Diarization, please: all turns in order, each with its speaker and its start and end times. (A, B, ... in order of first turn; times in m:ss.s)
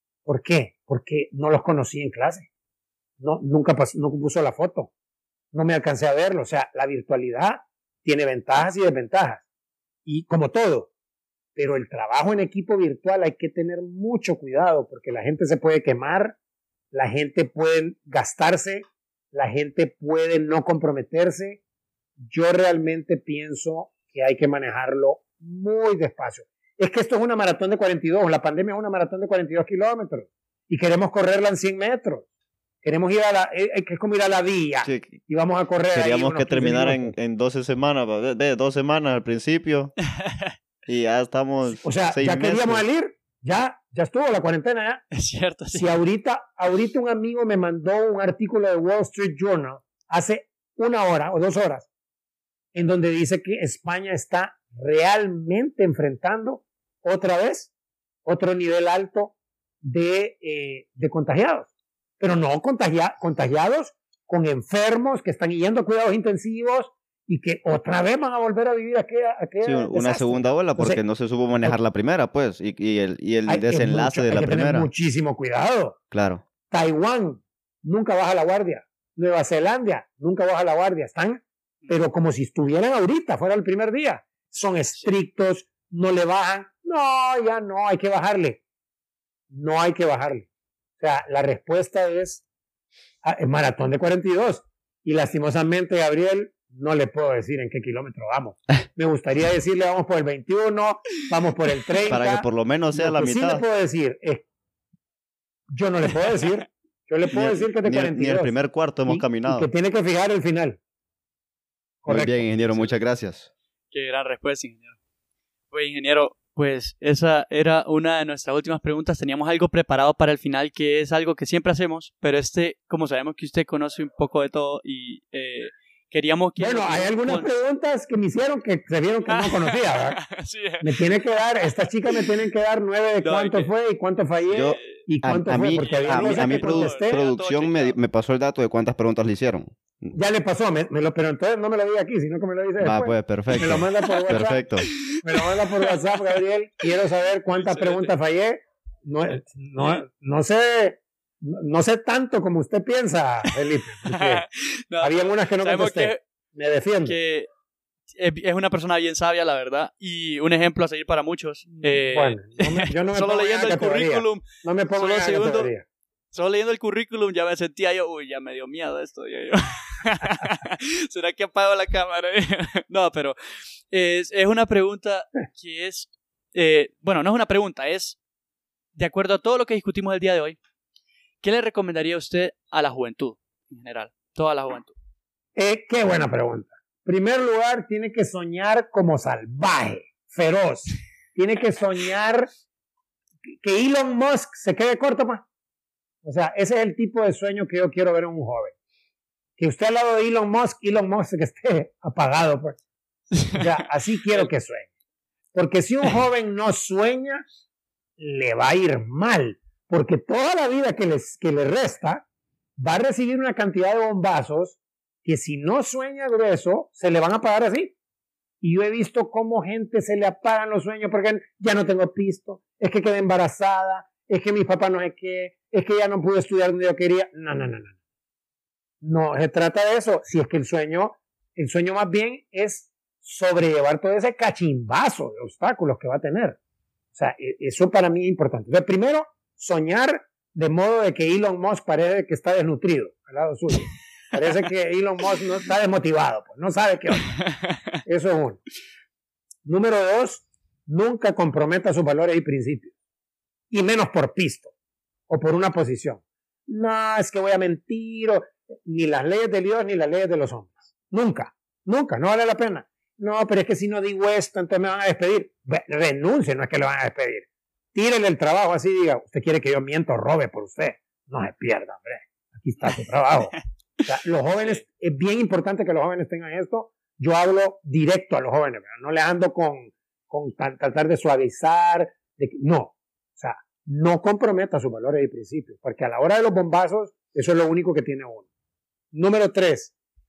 0:00.2-0:02.5 A
0:03.2-0:04.9 A
0:05.5-0:09.4 A
0:10.0-0:10.9 A
0:11.6-0:16.4 A
0:16.9-0:21.6 A
0:22.2-0:32.2 A
0:32.8-0:37.2 A
0:34.8-0:35.2 B
0:35.9-0:39.9 B
0:40.2-0:40.5 C
0:40.9-0:42.8 B
0:41.8-0:45.0 A
0:45.1-0:45.9 C
0:45.7-0:51.9 A
0:52.7-0:57.7 A
0:58.2-1:11.0 A
1:09.6-1:14.9 B
1:13.5-1:16.0 A
1:16.1-1:16.4 B
1:16.7-1:28.6 A
1:24.9-1:25.2 C
1:29.5-1:30.5 A
1:31.0-1:32.4 A
1:33.2-1:44.4 A
1:42.1-1:43.6 B
1:45.7-1:48.5 A
1:47.3-1:49.7 B
1:49.1-1:50.8 A
1:52.0-1:52.5 A
1:52.1-1:53.5 B
1:53.9-1:55.0 C
1:55.7-2:07.5 C
2:06.6-2:10.2 A
2:09.3-2:12.2 C
2:10.8-2:17.2 A
2:13.2-2:13.7 C
2:14.5-2:20.2 B
2:15.8-2:18.0 C
2:20.1-2:34.4 A
2:22.8-2:24.9 B
2:23.6-2:24.2 C
2:24.8-2:26.4 C
2:27.5-2:28.1 C
2:33.4-2:36.2 C
2:35.0-2:37.2 A
2:37.0-2:37.5 C
2:38.2-2:45.7 C
2:42.0-2:45.8 A
2:46.3-2:53.4 C
2:53.9-2:58.2 C
2:58.9-3:00.6 C
3:01.4-3:04.9 C
3:05.6-3:12.5 A
3:13.6-3:15.4 A
3:16.2-3:18.7 A
3:19.6-3:22.8 A
3:23.3-3:23.6 C
3:23.5-3:24.9 A
3:25.5-3:27.4 A
3:28.2-3:32.2 A
3:32.8-3:37.9 A
3:38.6-3:47.9 A
3:49.0-3:56.6 A
3:57.1-4:07.3 A
4:07.2-4:08.0 C
4:08.0-4:08.6 A
4:09.6-4:12.9 A
4:13.7-4:14.7 A
4:15.3-4:48.4 A
4:49.1-4:49.9 A